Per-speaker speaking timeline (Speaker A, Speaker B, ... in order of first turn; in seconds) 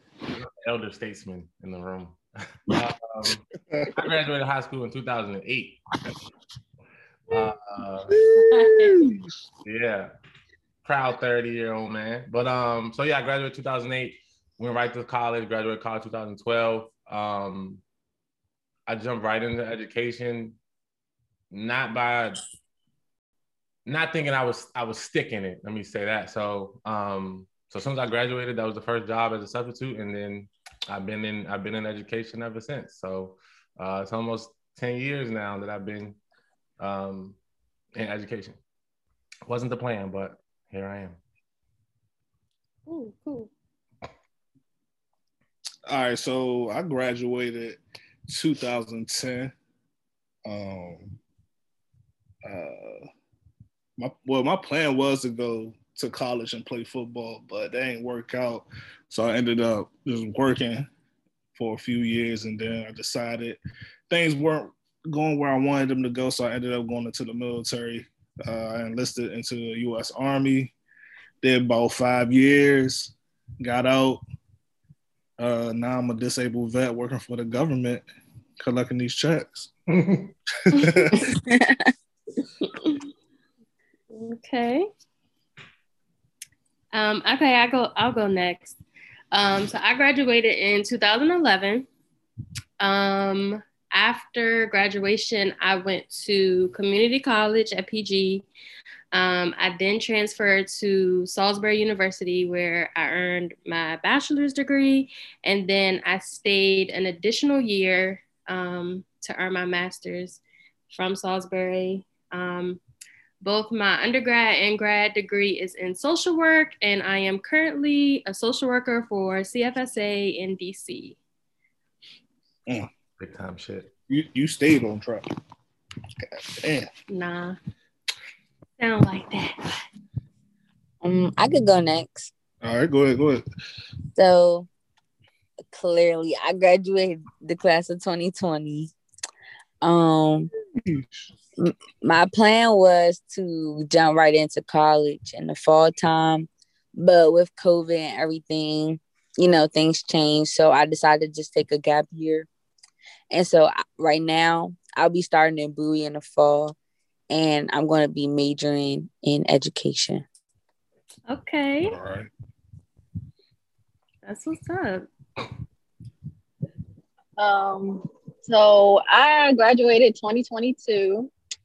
Speaker A: 0.3-5.8, 7.3-8.2, 9.7-10.1, 10.8-17.8, 18.9-20.6, 21.5-22.4, 23.9-36.2, 36.8-37.4, 38.0-38.6, 39.5-41.2, 79.9-80.3, 123.2-123.9
Speaker B: 8.1-9.3, 45.9-49.5, 50.5-51.2, 52.5-53.1, 54.0-60.9, 61.6-70.7, 71.4-74.2, 75.4-78.0, 78.6-79.7, 80.7-81.3, 124.1-125.3, 126.2-126.9, 132.6-133.4, 161.8-162.3
Speaker C: 8.3-9.0, 42.9-43.5, 82.6-83.0, 84.1-84.9, 86.9-88.8, 89.3-91.9, 92.8-98.5, 99.1-112.8, 113.4-121.2, 127.1-127.6, 128.8-129.8, 161.3-162.0, 164.2-165.1
Speaker D: 81.5-81.9, 131.0-132.3, 134.2-134.7, 135.7-138.9, 139.8-140.5, 141.6-152.5, 153.3-156.8, 157.3-160.2
Speaker E: 167.4-171.3